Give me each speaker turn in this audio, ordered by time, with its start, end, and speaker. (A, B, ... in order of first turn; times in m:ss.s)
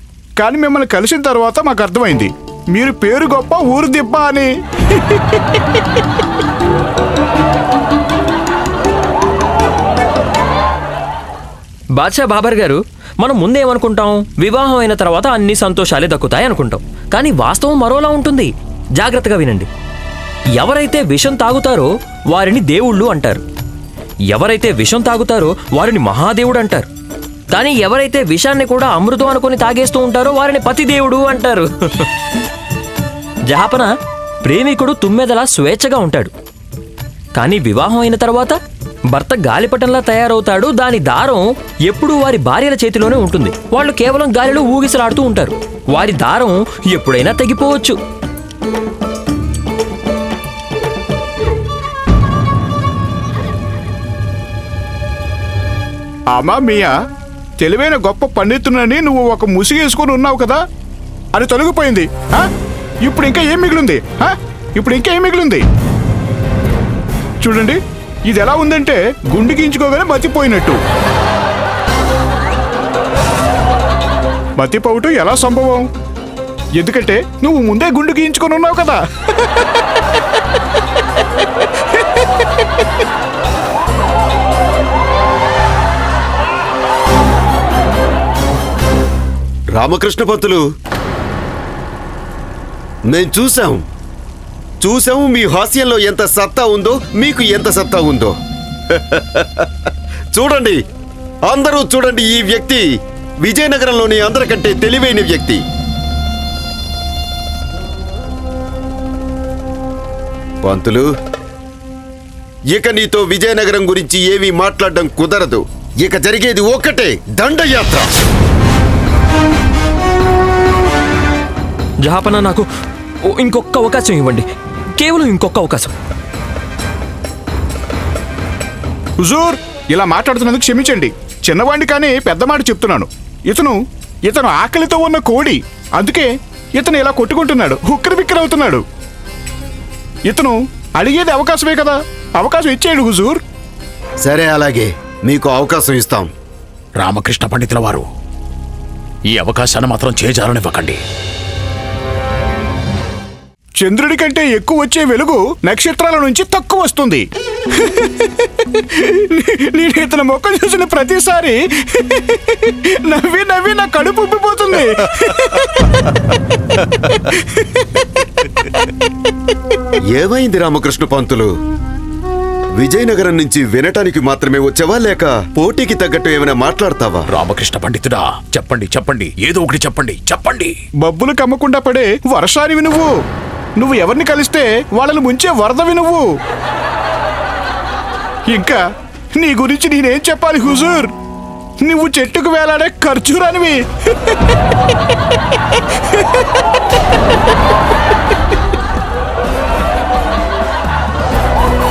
0:00.4-0:05.8 A
0:12.0-0:19.7 B
0:20.6-0:23.4 B
0:24.3-0:26.9 B
0:27.5-0:32.1 B
0:33.5-0:33.9 B
0:34.4-0:36.3 B
0:37.4-0:38.6 B
0:39.1-0:48.0 B
0:56.4-0:56.9 A
0:57.6-1:00.6 A
1:01.4-1:02.5 A
1:03.0-1:05.6 A
1:07.4-1:10.8 A
1:14.6-1:15.9 A
1:16.8-1:19.6 A
1:29.7-1:30.6 C
1:33.1-1:33.8 C
1:34.8-1:38.3 C
1:38.9-1:39.7 C
1:40.3-1:40.8 C
1:41.5-1:42.8 C
1:43.4-1:45.6 C
1:50.6-1:51.1 C
1:52.7-1:58.1 C
2:02.0-2:02.7 B
2:03.2-2:05.9 B
2:09.2-2:18.8 A
2:20.3-2:23.4 A
2:24.2-2:26.3 C
2:27.0-2:28.1 D
2:29.3-2:31.0 D
2:33.8-2:37.2 A
2:37.8-2:46.1 A
2:47.1-2:48.0 A
2:50.1-2:51.5 C
2:52.8-2:57.2 C
2:57.3-3:00.7 D
3:01.0-3:03.1 A
3:03.8-3:06.3 A
3:08.5-3:08.8 A
3:09.4-3:11.1 A
3:11.8-3:13.8 A